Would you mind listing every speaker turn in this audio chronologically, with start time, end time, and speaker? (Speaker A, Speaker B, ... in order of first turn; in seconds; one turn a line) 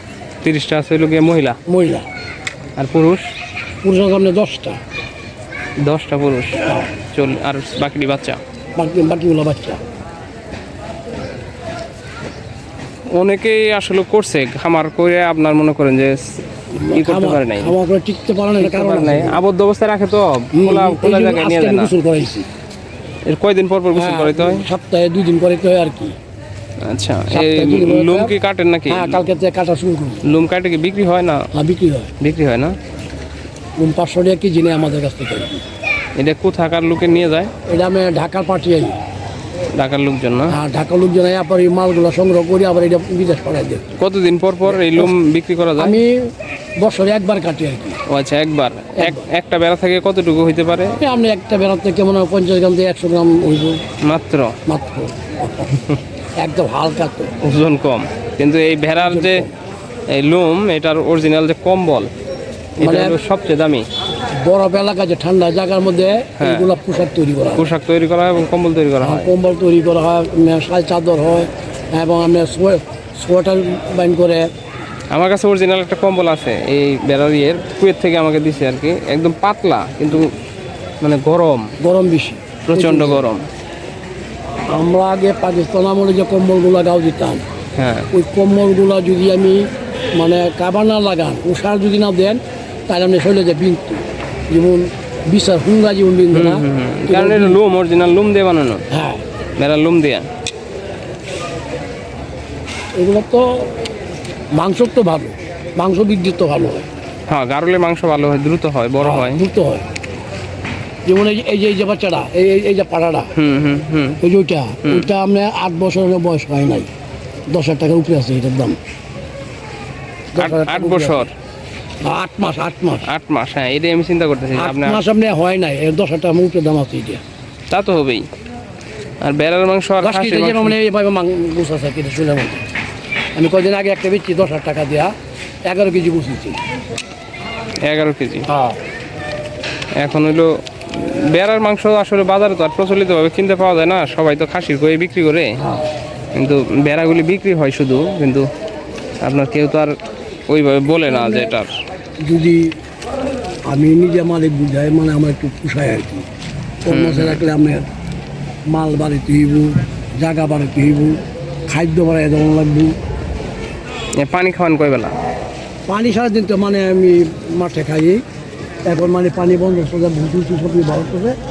Speaker A: 0.4-1.6
Speaker B: 1.7-2.1
Speaker A: 2.8-3.3
Speaker B: 3.8-4.8
Speaker A: 5.8-8.4
Speaker B: 8.8-9.8
Speaker A: 13.1-16.4
Speaker B: 16.7-19.4
Speaker A: 16.9-17.8
Speaker A: 18.6-21.9
Speaker B: 20.6-22.5
Speaker A: 23.3-24.6
Speaker B: 23.9-26.1
Speaker A: 26.8-29.2
Speaker B: 27.3-28.3
Speaker B: 28.9-30.2
Speaker A: 30.2-31.4
Speaker B: 31.5-32.1
Speaker A: 32.2-32.8
Speaker B: 33.8-35.6
Speaker A: 36.2-37.5
Speaker B: 37.7-39.0
Speaker A: 39.8-40.6
Speaker B: 40.5-44.0
Speaker A: 44.0-46.0
Speaker B: 44.7-45.1
Speaker B: 45.8-46.2
Speaker B: 46.8-48.0
Speaker A: 48.1-51.0
Speaker B: 49.0-49.3
Speaker B: 51.0-53.8
Speaker A: 54.0-54.5
Speaker B: 54.7-55.7
Speaker B: 56.4-57.3
Speaker A: 57.4-59.4
Speaker B: 59.0-59.5
Speaker A: 60.1-62.1
Speaker B: 62.8-63.2
Speaker A: 62.8-63.8
Speaker B: 64.4-67.7
Speaker A: 66.4-66.7
Speaker A: 67.6-69.3
Speaker B: 69.0-74.5
Speaker A: 75.1-80.3
Speaker A: 81.0-81.7
Speaker B: 81.8-83.3
Speaker A: 82.7-83.4
Speaker B: 84.7-87.5
Speaker A: 87.8-88.1
Speaker B: 88.1-89.7
Speaker B: 90.2-97.6
Speaker A: 96.3-98.8
Speaker B: 98.9-99.2
Speaker A: 99.6-100.3
Speaker B: 103.0-103.7
Speaker B: 104.6-106.9
Speaker A: 107.3-109.4
Speaker B: 109.0-109.8
Speaker B: 111.1-113.3
Speaker A: 113.4-114.2
Speaker B: 114.2-116.9
Speaker B: 117.5-118.8
Speaker B: 120.3-121.3
Speaker A: 120.4-121.3
Speaker B: 122.0-123.0
Speaker A: 123.1-125.0
Speaker B: 124.6-127.2
Speaker A: 127.7-128.3
Speaker A: 129.2-130.8
Speaker B: 130.0-132.6
Speaker B: 133.3-135.1
Speaker B: 135.7-136.6
Speaker A: 137.9-138.5
Speaker B: 138.5-138.8
Speaker A: 140.0-145.6
Speaker A: 146.4-148.5
Speaker A: 149.2-149.9
Speaker A: 150.5-151.7
Speaker B: 151.1-151.6
Speaker B: 152.2-152.7
Speaker B: 153.7-156.3
Speaker B: 156.8-157.9
Speaker A: 156.9-157.4
Speaker B: 158.7-161.2
Speaker B: 161.7-162.9
Speaker A: 164.2-165.1
Speaker B: 165.9-168.2
Speaker B: 168.9-171.4